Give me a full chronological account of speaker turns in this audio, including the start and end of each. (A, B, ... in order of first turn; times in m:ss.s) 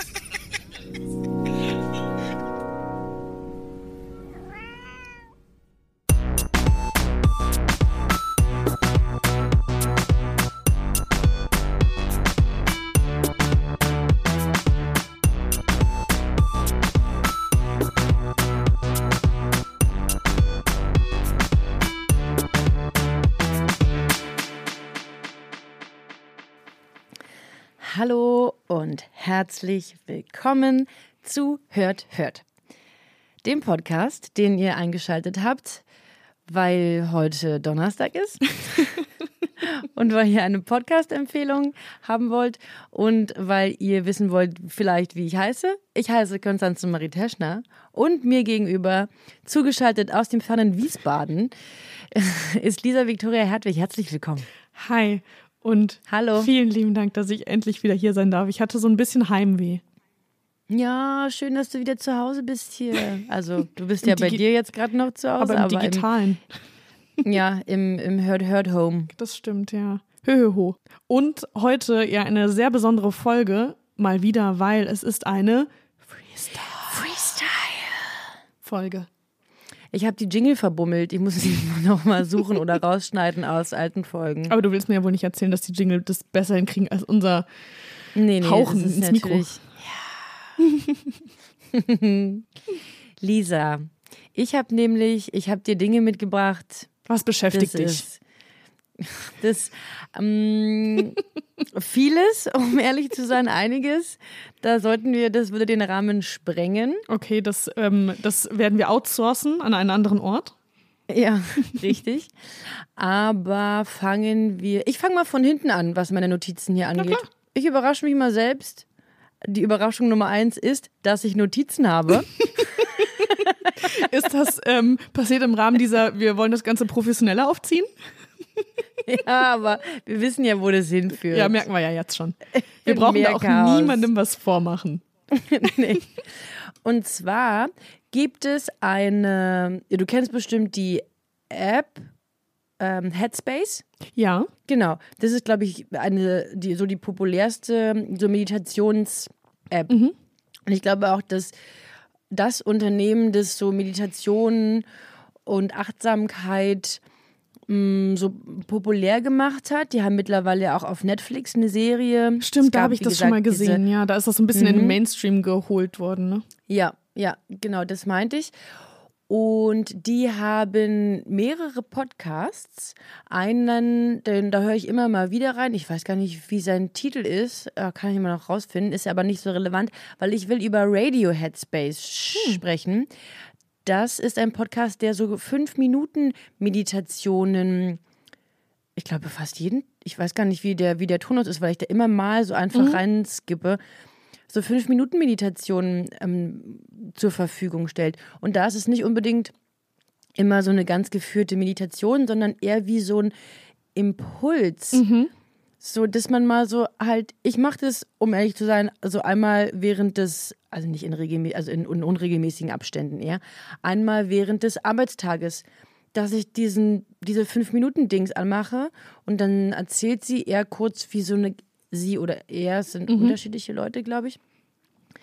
0:27.8-0:32.4 A
0:33.4-0:35.8 A
0:36.5-0:39.0 A
0:39.6-0:51.5 A
0:52.1-0:54.4 A
0:54.8-0:59.8 B
0:56.1-0:56.5 A
1:00.7-1:06.1 A
1:04.0-1:04.4 B
1:05.4-1:06.4 B
1:07.2-1:09.1 A
1:09.2-1:17.0 B
1:16.9-1:18.1 A
1:18.6-1:19.1 B
1:19.9-1:24.5 A
1:24.5-1:27.5 B
1:28.2-1:30.1 A
1:28.4-1:29.6 B
1:30.6-1:31.0 B
1:31.7-1:32.4 A
1:33.2-1:36.9 A
1:37.1-1:38.0 B
1:37.5-1:38.2 A
1:39.0-1:41.2 A
1:41.7-1:47.0 A
1:47.1-1:50.6 B
1:51.1-1:58.8 A
1:59.4-2:03.7 A
2:03.8-2:07.9 B
2:09.1-2:11.6 A
2:11.3-2:15.0 B
2:12.6-2:14.1 A
2:15.3-2:16.2 A
2:16.8-2:22.1 A
2:22.8-2:23.8 A
2:24.2-2:24.5 B
2:24.7-2:29.9 A
2:29.9-2:30.2 B
2:30.7-2:31.5 A
2:32.3-2:34.8 A
2:35.5-2:37.0 A
2:37.7-2:43.8 A
2:42.4-2:46.4 B
2:44.6-2:45.0 A
2:46.7-2:48.5 A
2:49.3-3:03.1 A
3:02.4-3:02.6 B
3:03.8-3:08.0 A
3:09.0-3:13.8 A
3:12.7-3:13.0 B
3:14.5-3:19.5 A
3:20.4-3:23.3 A
3:24.0-3:25.0 A
3:24.9-3:25.3 B
3:25.8-3:44.4 A
3:43.1-3:43.4 B